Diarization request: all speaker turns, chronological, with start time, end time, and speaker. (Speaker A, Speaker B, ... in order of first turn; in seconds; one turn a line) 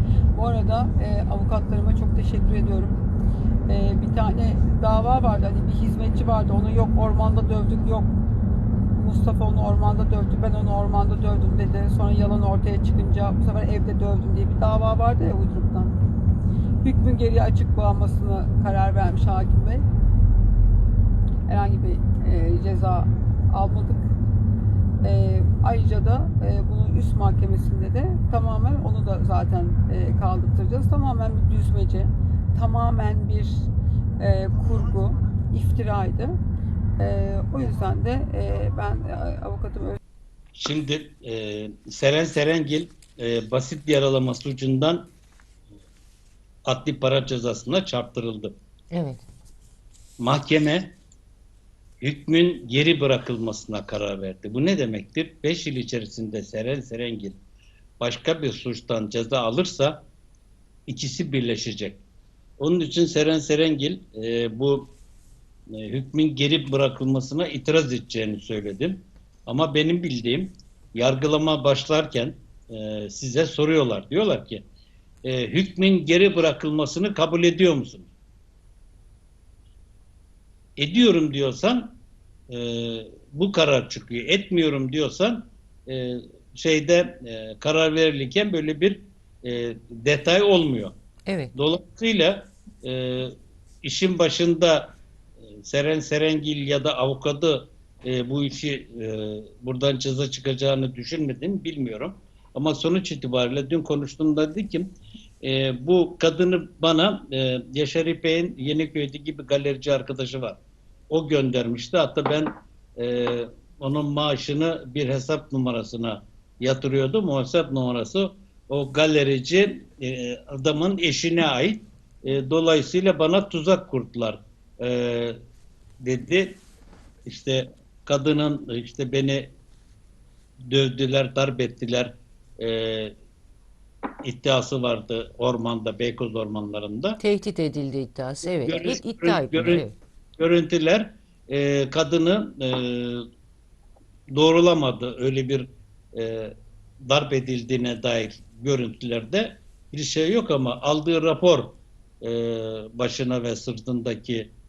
Speaker A: 0.3-3.0
Speaker A: 3.7-8.1
Speaker A: 8.9-15.9
Speaker A: 16.8-19.9
Speaker A: 21.5-24.2
Speaker A: 25.0-36.4
Speaker A: 37.0-40.0
Speaker B: 40.5-45.1
Speaker B: 46.7-48.5
Speaker C: 48.9-49.2
Speaker B: 50.2-51.0
Speaker B: 52.0-57.4
Speaker B: 58.0-60.0
Speaker B: 60.9-62.0
Speaker B: 62.6-65.0
Speaker B: 65.7-74.6
Speaker B: 75.2-78.1
Speaker B: 80.8-82.0
Speaker B: 82.5-90.9
Speaker C: 91.3-91.5
Speaker B: 91.5-95.0
Speaker B: 95.6-125.4
Speaker B: 126.0-126.6
Speaker B: 127.3-129.5
Speaker B: 130.7-133.1
Speaker B: 134.2-137.2
Speaker C: 137.2-139.9
Speaker B: 138.7-139.8
Speaker B: 140.4-143.2
Speaker B: 144.3-154.5